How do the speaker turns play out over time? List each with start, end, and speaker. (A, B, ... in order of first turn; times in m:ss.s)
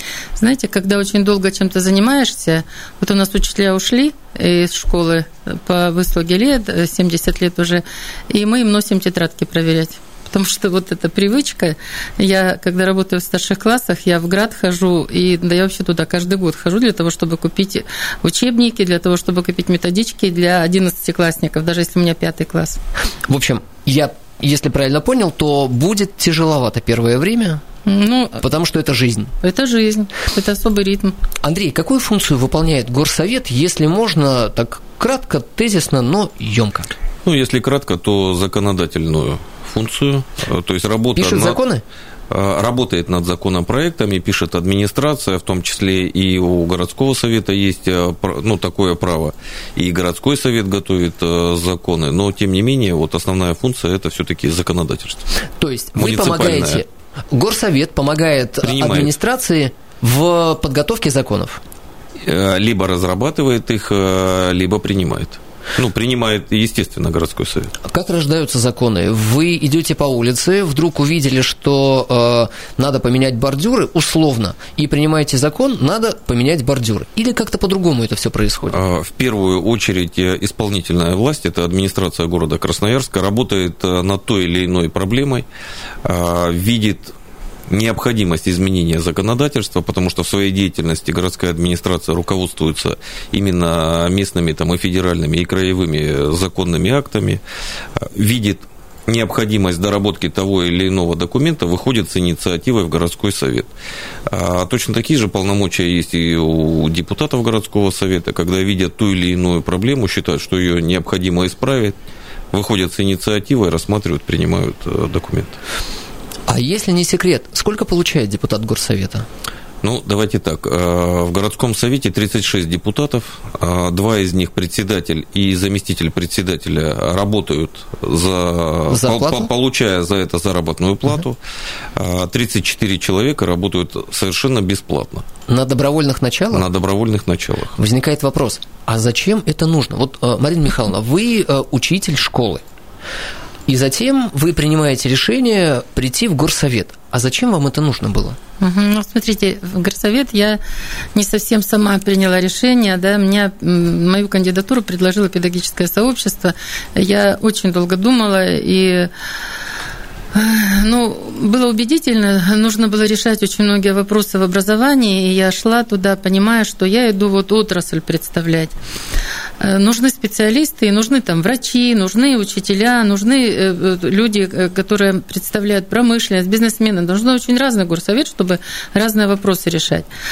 0:00.4-0:22.8 A
0:23.3-0:27.6 B
0:27.9-0:28.4 A
0:28.4-0:29.3 B
0:29.4-0:31.2 A
0:31.4-0:36.9 B
0:37.2-0:41.6 C
0:41.2-0:41.8 B
0:42.3-0:55.2 C
0:55.6-1:01.6 B
0:56.0-0:56.8 C
0:58.6-0:59.1 C
1:02.2-1:07.8 C
1:07.8-1:18.8 B
1:18.7-1:25.4 C
1:26.0-1:27.1 C
1:27.7-1:37.4 C
1:38.0-1:43.7 C
1:44.3-1:52.0 C
1:52.5-1:55.6 C
1:56.5-1:59.3 B
1:59.8-2:11.4 C
2:08.9-2:09.5 B
2:12.0-2:15.2 C
2:15.5-2:16.7 B
2:16.5-2:17.8 C
2:17.8-2:22.6 B
2:23.7-2:28.4 B
2:28.6-2:30.6 A
2:31.2-2:39.1 A
2:40.3-2:48.7 A
2:49.6-3:00.1 A